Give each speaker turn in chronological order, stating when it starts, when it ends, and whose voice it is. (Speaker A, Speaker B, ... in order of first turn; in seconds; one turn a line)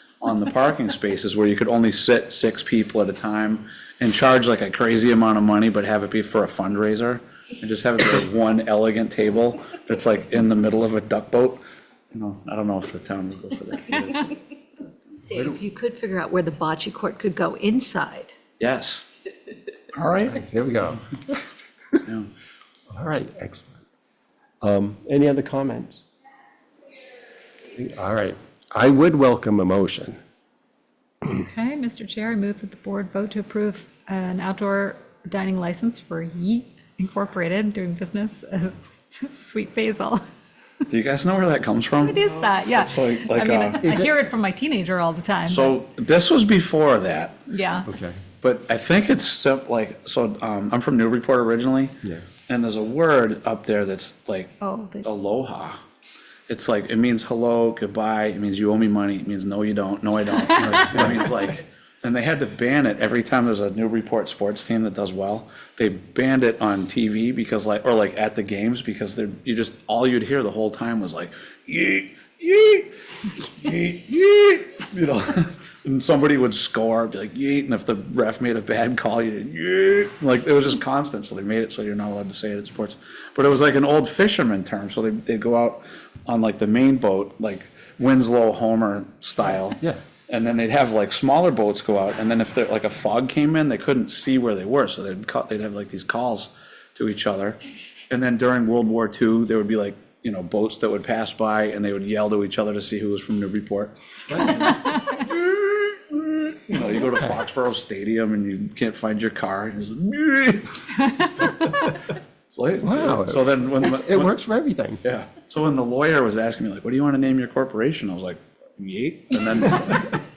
Speaker A: 0.2-11.6
Speaker A: 12.1-14.3
Speaker B: 15.3-18.3
Speaker A: 18.6-19.1
Speaker A: 19.9-20.4
Speaker C: 20.3-21.4
Speaker C: 22.9-23.8
Speaker C: 24.6-26.1
Speaker C: 27.7-30.2
Speaker D: 31.3-40.2
Speaker A: 40.9-43.8
Speaker D: 42.0-45.7
Speaker C: 43.8-44.1
Speaker A: 45.5-47.4
Speaker D: 47.5-47.9
Speaker C: 47.9-48.2
Speaker A: 48.4-51.9
Speaker A: 52.5-55.8
Speaker D: 54.6-55.1
Speaker A: 56.5-72.9
Speaker A: 73.5-97.6
Speaker A: 98.1-111.6
Speaker A: 112.5-114.3
Speaker C: 112.8-115.0
Speaker A: 115.0-120.1